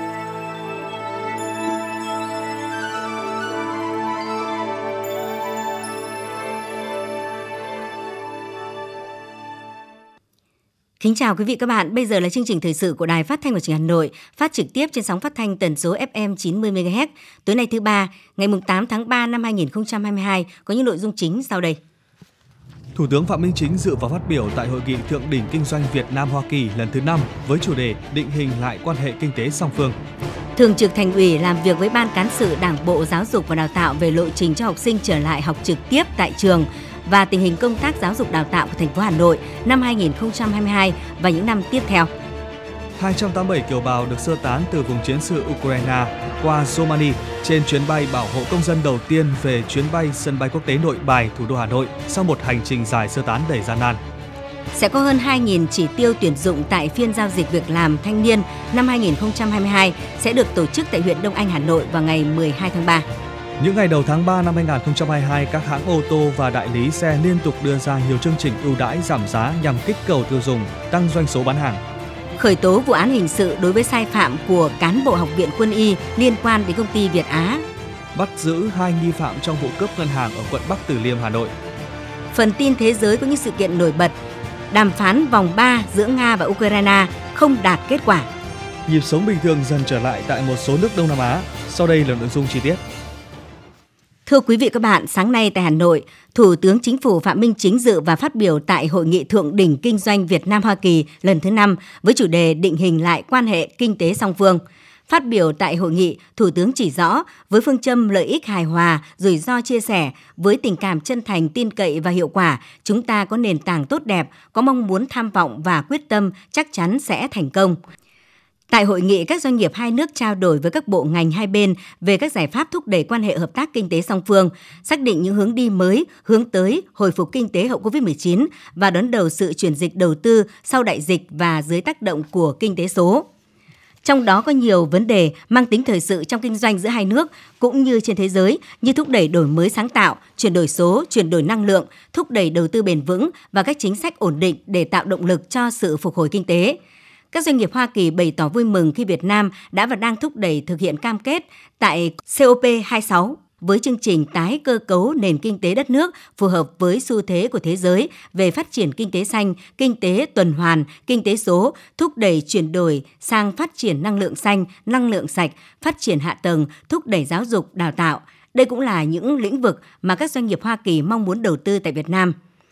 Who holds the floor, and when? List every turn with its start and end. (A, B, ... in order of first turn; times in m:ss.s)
0:11.0-0:21.8 A
0:22.9-0:30.0 B
0:30.6-0:42.1 A
0:43.0-0:54.0 B
0:54.7-1:03.0 A
1:03.6-1:11.8 B
1:12.4-1:17.6 A
1:18.1-1:21.5 B
1:22.3-1:24.2 A
1:24.7-1:28.3 A
1:28.8-1:32.8 B
1:34.2-1:57.8 A
1:58.7-2:13.3 A
2:14.0-2:26.8 A
2:27.3-2:52.4 A